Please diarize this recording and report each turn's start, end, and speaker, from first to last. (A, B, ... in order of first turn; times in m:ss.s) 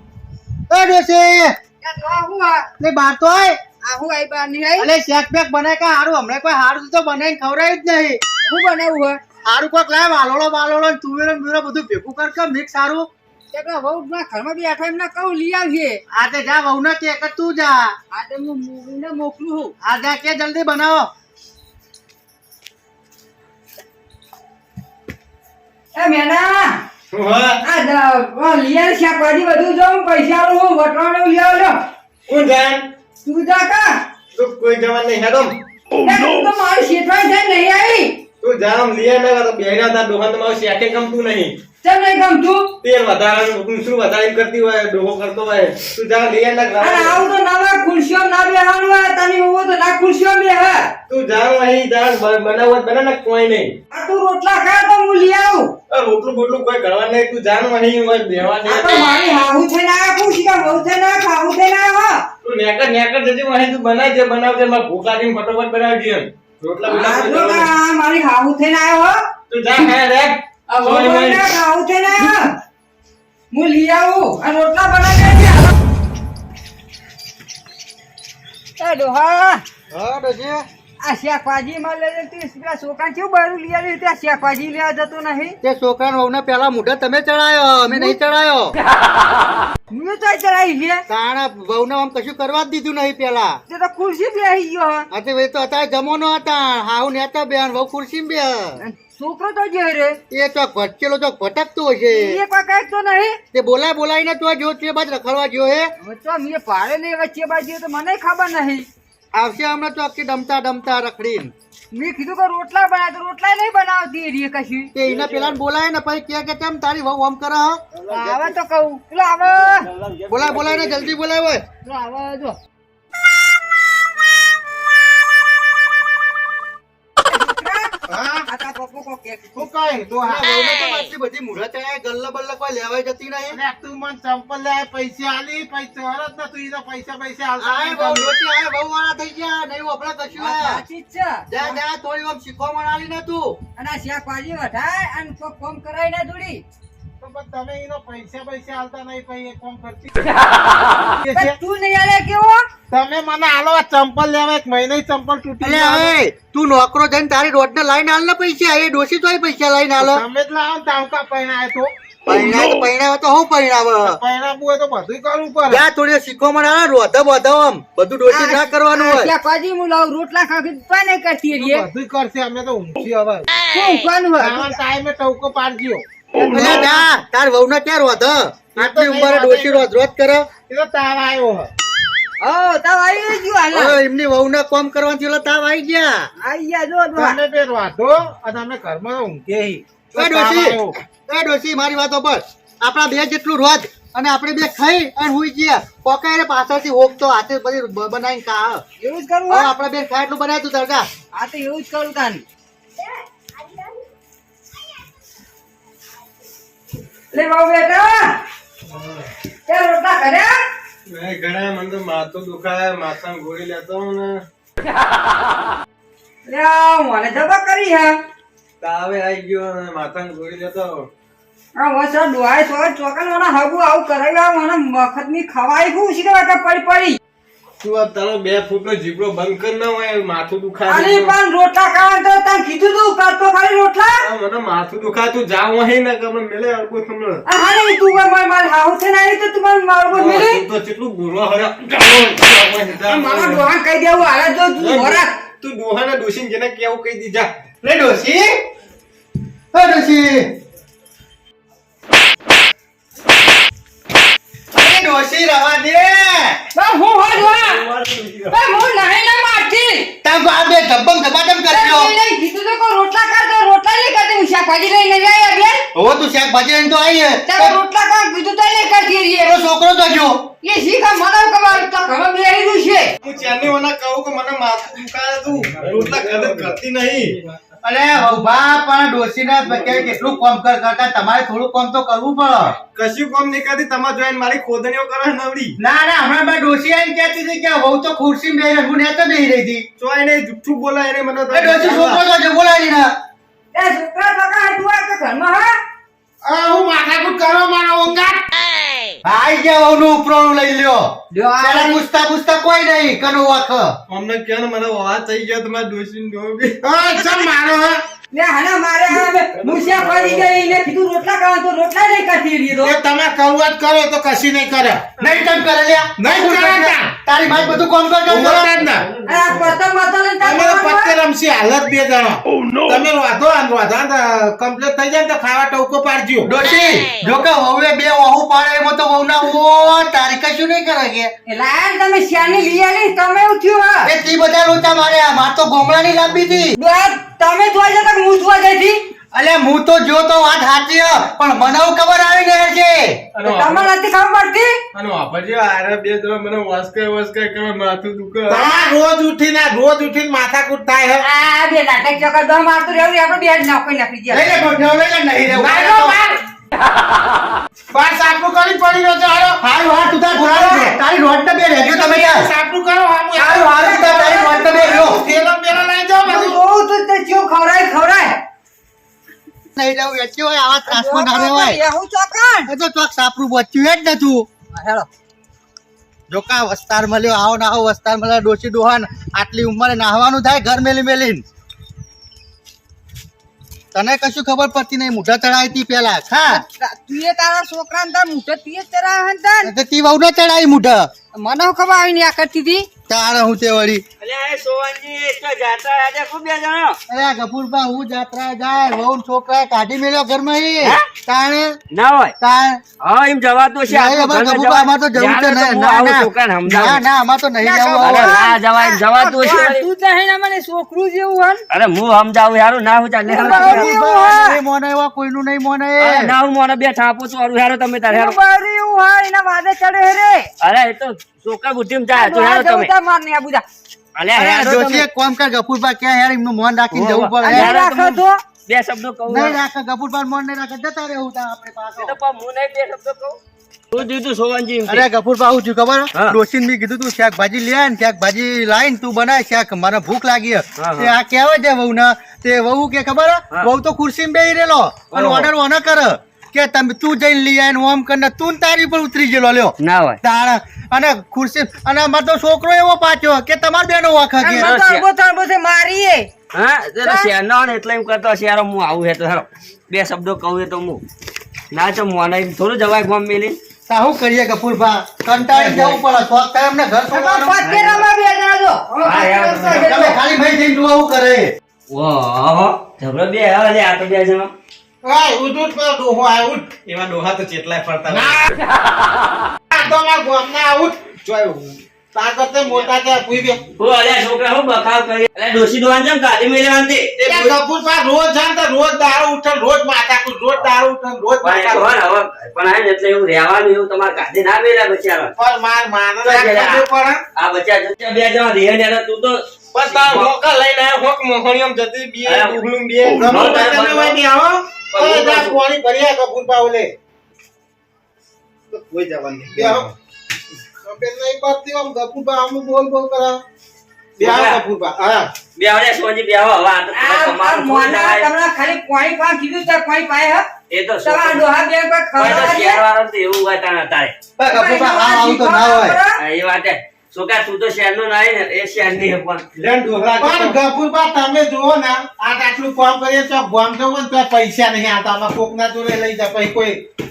0:00.7-0:01.6 A
0:01.8-0:02.7 B
0:02.8-0:03.6 A
0:03.8-0:04.9 B
0:04.8-0:08.2 A
0:08.4-0:09.2 B
0:09.5-0:13.1 A
0:13.5-0:16.0 B
0:16.1-0:18.0 A
0:18.1-0:19.7 B
0:19.8-0:21.1 A
0:26.0-0:26.8 B
0:27.1-0:27.6 C
0:27.6-0:31.8 B
0:32.3-0:32.9 C
0:33.2-0:34.0 B
0:34.3-0:35.6 C
0:36.0-0:38.2 B
0:38.4-0:41.6 C
0:41.8-0:42.7 B
0:42.8-0:47.2 C
0:46.8-0:50.9 B
0:51.1-0:53.8 C
0:53.9-0:55.7 B
0:55.9-0:59.1 C
0:58.6-1:02.2 B
1:02.4-1:07.7 C
1:06.9-1:09.2 B
1:09.5-1:11.5 C
1:10.7-1:12.6 B
1:13.5-1:15.7 B
1:18.8-1:19.6 B
1:19.9-1:20.6 A
1:21.0-1:25.6 B
1:25.6-1:28.8 A
1:27.9-1:28.2 B
1:29.9-1:31.0 B
1:31.1-1:33.6 A
1:33.7-1:35.1 B
1:35.1-1:38.8 A
1:38.8-1:40.2 B
1:40.3-1:42.4 A
1:42.1-1:43.4 B
1:43.5-1:45.9 A
1:46.0-1:48.9 B
1:49.3-1:51.5 A
1:51.9-1:54.9 B
1:54.9-1:57.8 A
1:55.1-1:55.6 C
1:58.1-1:58.5 C
1:58.1-1:59.9 B
1:59.9-2:01.1 C
2:00.3-2:01.6 A
2:01.8-2:02.6 B
2:07.2-2:09.7 B
2:08.1-2:08.5 D
2:09.6-2:10.6 D
2:10.2-2:13.6 A
2:13.5-2:18.4 D
2:17.6-2:20.8 A
2:20.4-2:21.5 B
2:21.5-2:23.6 A
2:23.8-2:26.6 B
2:27.2-2:30.2 D
2:31.2-2:31.6 D
2:31.3-2:32.6 B
2:32.9-2:36.1 D
2:35.6-2:40.2 A
2:40.0-2:41.9 D
2:42.2-2:44.2 A
2:44.0-2:45.8 D
2:45.7-2:49.3 A
2:48.3-2:51.8 B
2:51.6-2:53.5 D
2:53.7-2:54.7 B
2:54.4-2:56.9 D
2:56.5-3:00.5 A
2:58.8-2:59.9 D
3:00.7-3:01.7 D
3:02.4-3:04.0 B
3:03.7-3:06.3 A
3:06.4-3:07.4 B
3:07.1-3:11.0 D
3:10.2-3:18.8 A
3:19.0-3:19.7 B
3:19.5-3:21.1 A
3:21.3-3:22.4 B
3:27.3-3:28.4 B
3:28.9-3:29.3 C
3:29.7-3:30.6 B
3:31.1-3:34.4 C
3:36.5-3:38.2 B
3:38.8-3:41.1 C
3:41.8-3:47.2 B
3:47.8-3:51.3 C
3:50.9-3:54.2 B
3:54.2-3:57.4 C
3:57.5-4:00.6 B
4:00.1-4:03.6 C
4:03.0-4:05.4 B
4:04.8-4:07.5 C
4:07.8-4:08.5 A
4:09.7-4:10.5 A
4:14.7-4:16.6 A
4:16.8-4:17.8 B
4:17.5-4:18.5 E
4:18.5-4:20.1 B
4:20.2-4:22.1 A
4:21.7-4:25.8 B
4:26.0-4:27.8 A
4:27.5-4:29.6 B
4:29.4-4:30.4 A
4:30.6-4:33.1 B
4:33.2-4:37.4 C
4:37.8-4:42.8 A
4:42.9-4:45.8 C
4:45.8-4:49.9 A
4:50.0-4:52.2 C
4:51.5-4:53.1 A
4:53.7-4:55.8 B
4:56.4-4:58.4 D
4:59.2-5:01.1 A
5:01.3-5:02.0 B
5:01.6-5:03.9 A
5:04.1-5:06.8 C
5:06.8-5:08.0 D
5:08.3-5:13.0 B
5:09.6-5:10.5 C
5:12.8-5:15.0 D
5:15.2-5:18.8 A
5:16.2-5:17.1 D
5:18.3-5:19.1 D
5:19.2-5:21.2 B
5:20.4-5:26.5 D
5:26.4-5:31.3 A
5:31.5-5:34.1 B
5:34.0-5:36.8 A
5:36.8-5:39.0 B
5:39.3-5:43.2 A
5:43.4-5:43.9 C
5:43.4-5:44.7 B
5:44.9-5:48.8 C
5:48.5-5:51.2 D
5:51.2-5:54.6 B
5:54.3-5:56.2 A
5:55.6-5:56.4 D
5:57.9-5:59.6 D
5:59.6-6:02.5 A
6:00.3-6:01.0 D
6:01.8-6:06.6 D
6:03.4-6:05.2 A
6:06.3-6:08.4 B
6:09.8-6:11.8 A
6:10.9-6:12.7 B
6:12.7-6:14.5 A
6:14.7-6:15.1 B
6:16.3-6:21.4 A
6:23.9-6:26.6 A
6:26.5-6:29.7 B
6:29.6-6:31.1 A
6:31.4-6:32.9 B
6:33.1-6:34.0 A
6:34.2-6:37.0 E
6:37.1-6:41.8 A
6:41.9-6:42.4 E
6:42.4-6:42.8 A
6:43.0-6:47.0 E
6:43.9-6:48.4 A
6:47.6-6:51.7 B
6:48.0-6:49.8 E
6:51.7-6:53.9 E
6:53.3-6:54.6 B
6:53.3-6:56.3 A
6:56.0-6:58.4 E
6:58.1-7:00.5 B
7:00.6-7:02.9 E
7:02.1-7:03.6 B
7:04.2-7:05.1 E
7:04.3-7:07.7 A
7:06.9-7:09.6 E
7:07.4-7:08.4 B
7:09.3-7:12.2 A
7:12.0-7:13.4 E
7:13.9-7:15.1 E
7:14.9-7:34.7 A
7:20.8-7:21.1 E
7:25.1-7:25.5 E
7:29.8-7:30.2 E
7:34.4-7:36.3 B
7:34.6-7:35.0 E
7:36.5-7:41.0 E
7:37.0-7:37.3 B
7:41.7-7:43.6 E
7:43.9-7:47.6 A
7:45.4-7:46.0 E
7:47.1-7:50.2 B
7:47.6-7:48.1 E
7:49.0-7:49.8 E
7:49.6-7:51.5 A
7:51.9-7:54.5 E
7:55.0-7:56.7 D
7:56.8-7:58.5 C
7:58.1-7:58.5 D
7:59.7-8:01.1 D
8:01.2-8:01.8 C
8:02.1-8:03.6 D
8:03.8-8:07.6 E
8:07.2-8:12.0 D
8:11.4-8:15.3 E
8:15.4-8:17.2 D
8:16.2-8:20.3 E
8:19.7-8:23.6 C
8:22.2-8:22.6 E
8:23.1-8:24.2 E
8:23.2-8:26.9 D
8:24.9-8:25.6 E
8:28.7-8:29.9 C
8:29.5-8:29.9 D
8:30.8-8:33.4 D
8:34.2-8:35.3 D
8:34.2-8:34.6 E
8:35.6-8:38.3 E
8:36.9-8:40.5 B
8:40.7-8:41.4 E
8:41.0-8:42.8 B
8:42.2-8:44.1 E
8:44.4-8:46.0 A
8:44.5-8:46.2 B
8:46.2-8:49.5 E
8:49.6-8:56.8 D
8:50.0-8:50.6 C